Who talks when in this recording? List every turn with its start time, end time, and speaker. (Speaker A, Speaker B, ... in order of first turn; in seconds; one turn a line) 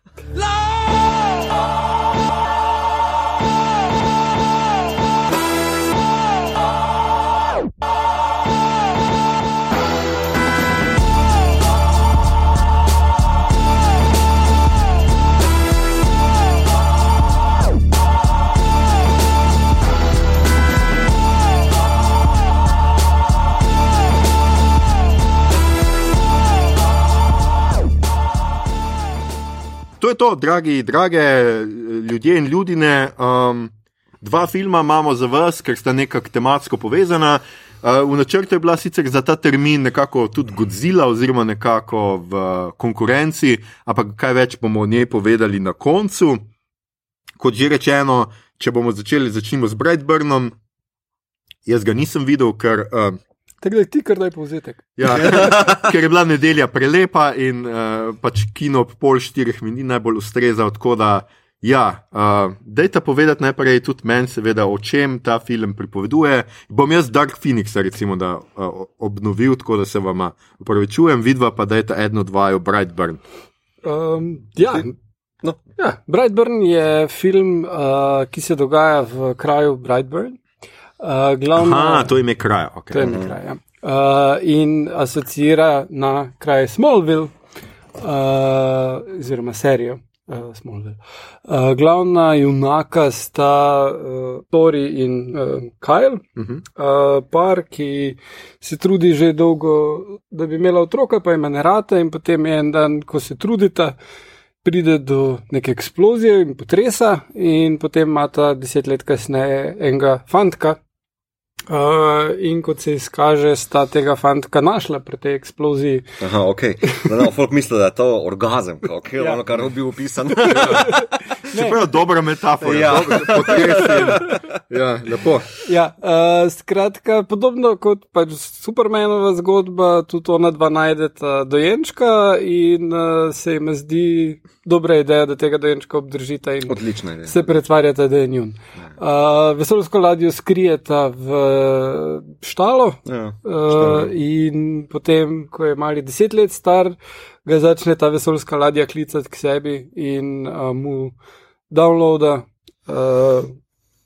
Speaker A: 30.0-46.5
Speaker A: 47.4-50.5
Speaker A: 51.6-53.2
Speaker B: 53.6-55.5
Speaker A: 55.0-73.2
Speaker C: 55.1-55.9
Speaker B: 73.8-74.9
Speaker B: 75.8-80.4
Speaker B: 81.0-82.2
Speaker A: 81.5-83.2
Speaker B: 82.9-87.3
Speaker C: 83.0-83.3
Speaker B: 88.0-96.2
Speaker B: 96.8-104.0
Speaker B: 104.6-110.8
Speaker B: 111.7-116.1
Speaker C: 116.2-121.0
Speaker B: 120.5-121.8
Speaker A: 120.5-120.8
Speaker A: 121.5-125.5
Speaker C: 122.6-124.4
Speaker B: 123.6-124.4
Speaker B: 125.6-151.1
Speaker C: 136.7-137.5
Speaker C: 143.1-144.1
Speaker B: 151.7-153.5